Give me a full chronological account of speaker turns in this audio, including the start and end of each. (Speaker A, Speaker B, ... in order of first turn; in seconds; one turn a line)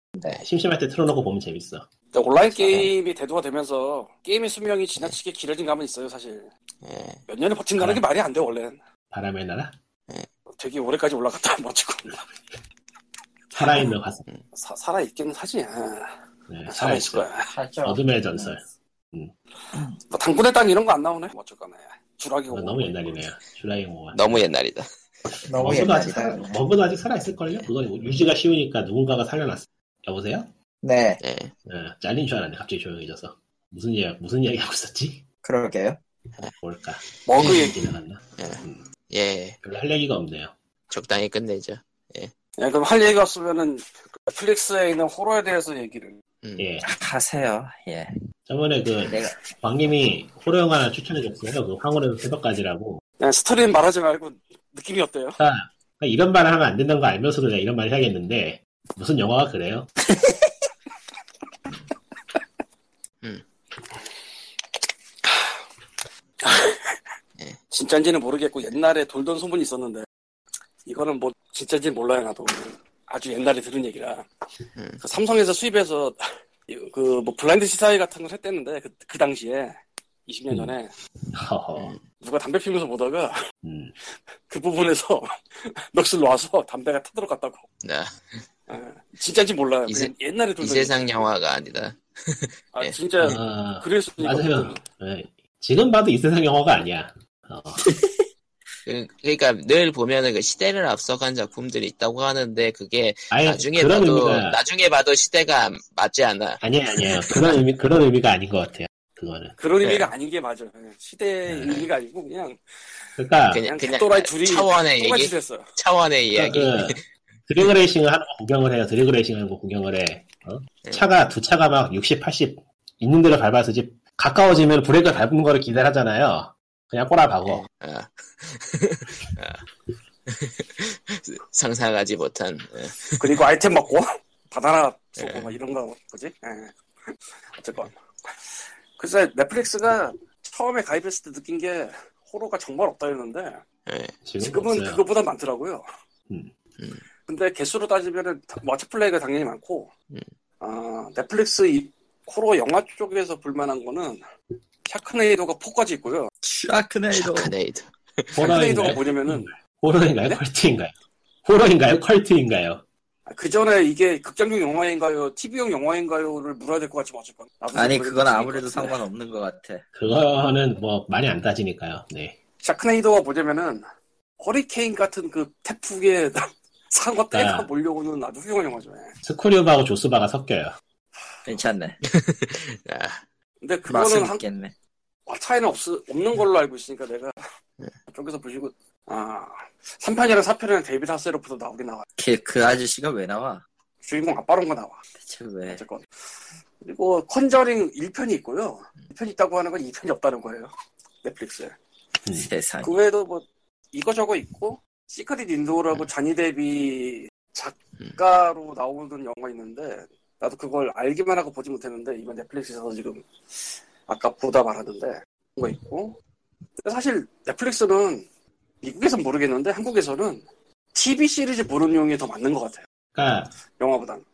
Speaker A: 0.2-0.4
Speaker B: 0.3-1.9
Speaker C: 2.1-6.5
Speaker D: 6.8-7.2
Speaker C: 7.3-8.8
Speaker B: 7.8-8.0
Speaker B: 9.1-9.8
Speaker C: 10.5-12.3
Speaker C: 13.5-13.9
Speaker B: 13.6-14.3
Speaker C: 14.5-16.1
Speaker B: 16.5-17.3
Speaker C: 16.7-17.5
Speaker A: 17.5-18.6
Speaker B: 17.8-19.3
Speaker C: 19.8-23.2
Speaker B: 22.5-24.4
Speaker D: 24.1-24.9
Speaker B: 25.3-30.5
Speaker A: 25.4-26.7
Speaker A: 30.8-31.2
Speaker D: 31.2-31.6
Speaker B: 31.7-35.2
Speaker A: 35.4-36.0
Speaker B: 36.6-38.9
Speaker C: 37.3-37.8
Speaker D: 37.4-37.7
Speaker D: 38.4-39.6
Speaker B: 39.6-40.5
Speaker D: 40.9-42.3
Speaker C: 42.6-46.1
Speaker D: 46.4-46.7
Speaker B: 46.6-46.9
Speaker A: 46.8-48.1
Speaker B: 48.5-53.0
Speaker A: 49.1-49.5
Speaker C: 53.2-55.4
Speaker B: 55.4-59.9
Speaker A: 60.1-60.5
Speaker C: 66.4-67.0
Speaker C: 67.7-70.1
Speaker C: 70.9-74.3
Speaker C: 75.0-79.8
Speaker C: 80.3-80.9
Speaker B: 81.3-82.0
Speaker C: 82.2-83.4
Speaker B: 83.6-83.9
Speaker C: 84.5-87.7
Speaker D: 87.8-88.1
Speaker C: 88.7-91.1
Speaker D: 89.9-93.0
Speaker C: 92.7-94.8
Speaker B: 93.2-97.9
Speaker A: 97.8-98.2
Speaker D: 98.9-107.4
Speaker B: 103.3-104.6
Speaker B: 106.6-109.5
Speaker C: 109.6-112.6
Speaker D: 109.8-110.1
Speaker B: 111.5-111.8
Speaker B: 113.2-113.7
Speaker D: 113.5-117.0
Speaker C: 113.6-115.7
Speaker B: 116.3-127.6
Speaker D: 127.5-129.6
Speaker D: 130.3-133.4
Speaker C: 133.2-143.6
Speaker D: 135.2-135.5
Speaker D: 143.9-144.2
Speaker B: 144.3-145.0
Speaker C: 144.4-145.8
Speaker D: 146.8-147.0
Speaker C: 147.3-149.9
Speaker C: 150.6-154.2
Speaker C: 154.9-156.3
Speaker A: 156.4-157.5
Speaker D: 157.1-158.9
Speaker C: 158.4-159.5
Speaker B: 158.4-160.9
Speaker B: 161.4-162.8
Speaker C: 163.3-169.0
Speaker A: 167.7-169.8
Speaker B: 169.9-172.4
Speaker C: 172.6-173.8
Speaker C: 174.4-179.2
Speaker B: 177.3-177.7
Speaker B: 179.2-180.8
Speaker A: 181.5-182.0
Speaker D: 182.0-183.2
Speaker C: 183.6-184.4
Speaker A: 183.9-184.7
Speaker C: 185.3-187.3
Speaker C: 188.1-192.1
Speaker A: 192.2-193.6
Speaker C: 194.0-195.0
Speaker A: 195.2-195.8
Speaker C: 195.7-196.0
Speaker C: 196.8-200.7
Speaker C: 201.2-201.8
Speaker B: 202.3-202.5
Speaker A: 202.3-202.9
Speaker C: 202.8-213.3
Speaker C: 214.1-216.2
Speaker C: 216.8-218.3
Speaker C: 218.8-222.8
Speaker B: 223.2-223.6
Speaker C: 223.8-224.2